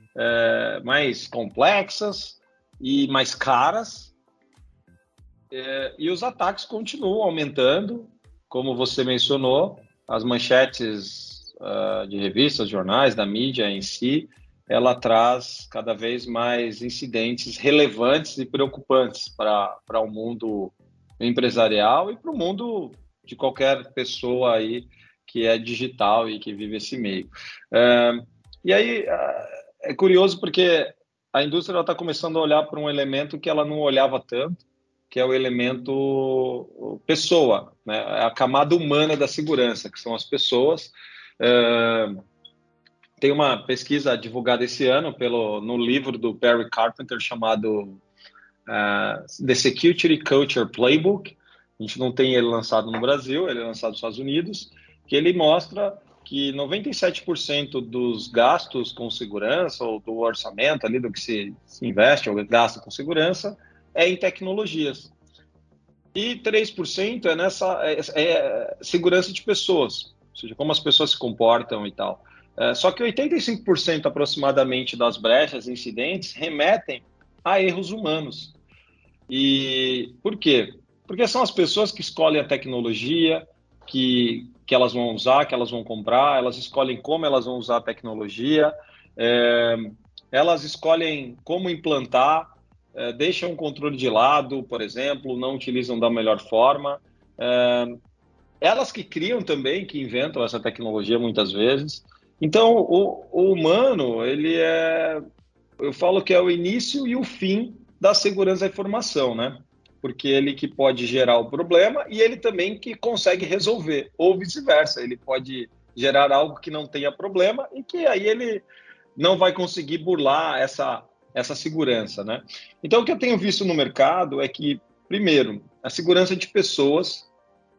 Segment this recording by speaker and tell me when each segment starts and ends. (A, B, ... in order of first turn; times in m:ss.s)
0:00.2-0:04.1 A
0:05.5-0:42.2 A
0:43.2-0:48.0 A
0:48.7-1:05.1 A
1:06.2-1:18.6 A
1:19.3-1:38.0 A
1:38.6-1:45.2 A
1:45.8-1:58.6 A
1:59.2-2:07.3 A